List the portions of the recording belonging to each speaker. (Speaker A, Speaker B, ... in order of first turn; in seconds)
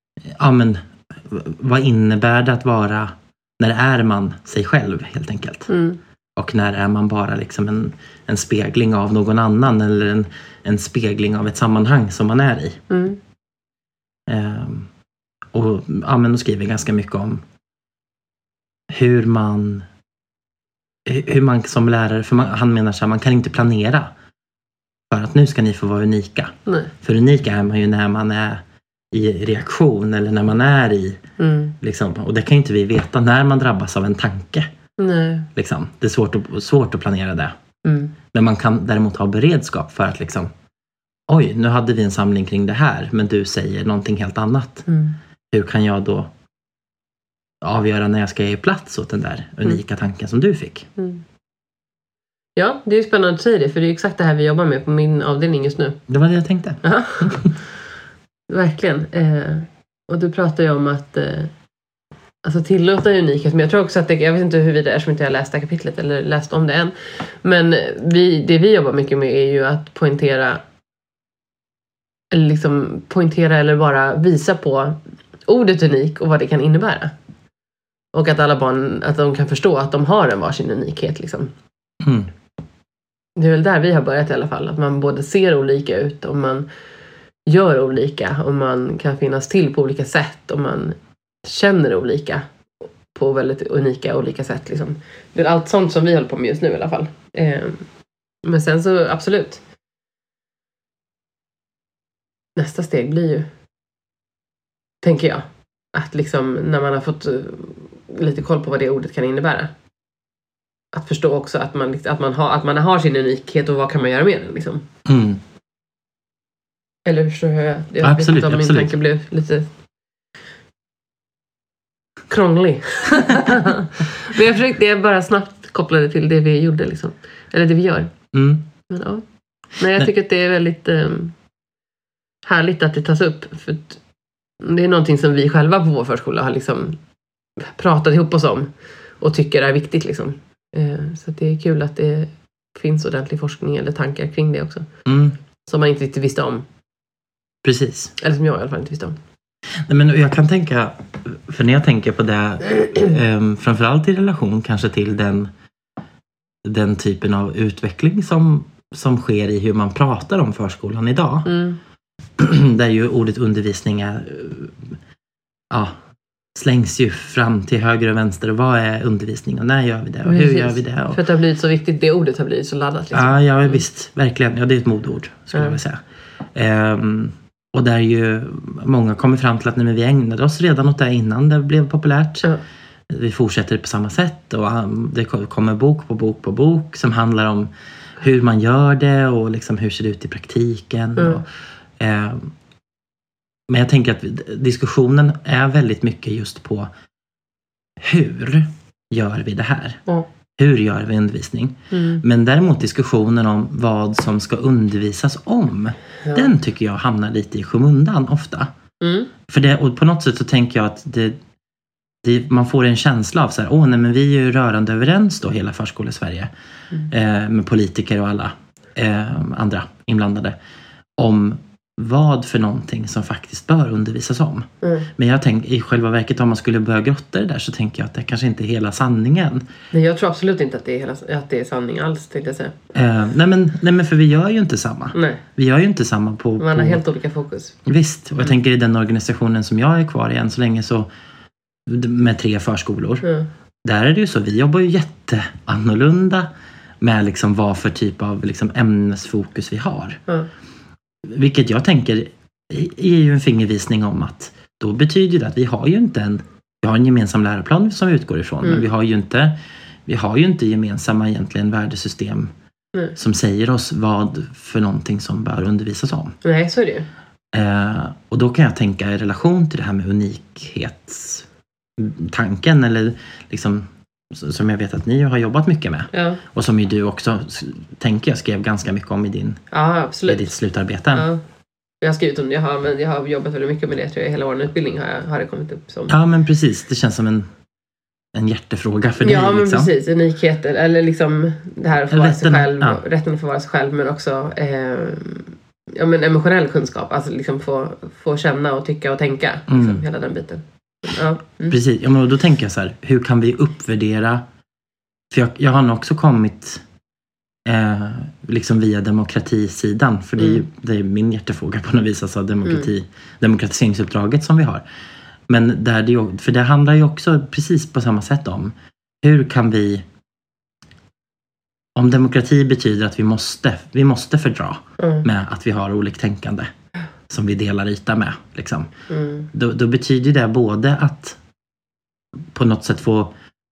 Speaker A: 0.3-5.7, 6.3-12.8, 14.3-14.9, 15.5-17.4, 18.9-19.9, 21.1-24.1, 25.1-31.2, 31.8-34.7, 35.5-37.5, 38.3-40.5, 41.3-44.8, 45.5-46.3, 47.6-50.9, 56.1-57.5, 82.0-82.3, 115.0-115.4, 118.0-118.9, 128.3-128.6, 145.1-145.4, 147.6-148.1, 149.9-155.5, 156.6-161.5, 162.4-164.8, 165.7-166.0, 166.5-171.2, 173.1-176.0, 176.5-182.5, 183.1-187.7, 188.2-191.4, 192.0-192.5, 193.7-196.9, 198.0-200.0, 200.6-208.7, 209.5-211.4, 212.2-216.5, 217.1-220.5, 221.2-229.6, 232.9-237.0, 237.8-241.1, 241.9-243.2, 243.8-246.5, 247.0-250.2, 251.2-259.5, 260.1-262.5, 263.1-266.3, 267.5-271.4, 272.0-279.6, 280.3-281.3, 286.1-287.5, 288.3-289.9, 292.1-293.0, 299.7-300.0, 301.7-304.4, 305.3-306.8, 307.6-314.8, 315.5-320.0, 321.9-326.7, 327.3-328.9, 329.5-331.4, 332.5-333.3
Speaker B: 5.7-6.0, 12.9-13.2, 31.4-31.7, 35.0-35.5, 37.8-38.1, 44.9-45.1, 51.0-51.2, 52.5-56.0, 56.8-57.5, 58.5-61.5, 62.4-70.6, 72.3-77.1, 78.1-81.5, 83.3-86.7, 87.5-92.4, 93.1-97.8, 98.4-99.6, 102.5-103.5, 105.0-109.7, 110.9-114.8, 117.0-119.7, 122.3-128.1, 128.9-129.2, 129.8-131.3, 132.4-134.0, 134.6-137.0, 137.6-138.7, 139.2-144.8, 145.7-146.7, 148.2-149.2, 161.4-161.8, 170.2-173.8, 191.2-191.4, 201.9-202.2, 206.2-206.5, 209.0-209.3, 224.8-225.1, 229.9-232.8, 235.1-235.4, 236.6-237.7, 266.4-267.1, 276.1-276.4, 279.7-280.5, 281.1-281.4, 282.0-286.1, 289.2-301.8, 325.0-325.2, 329.1-329.5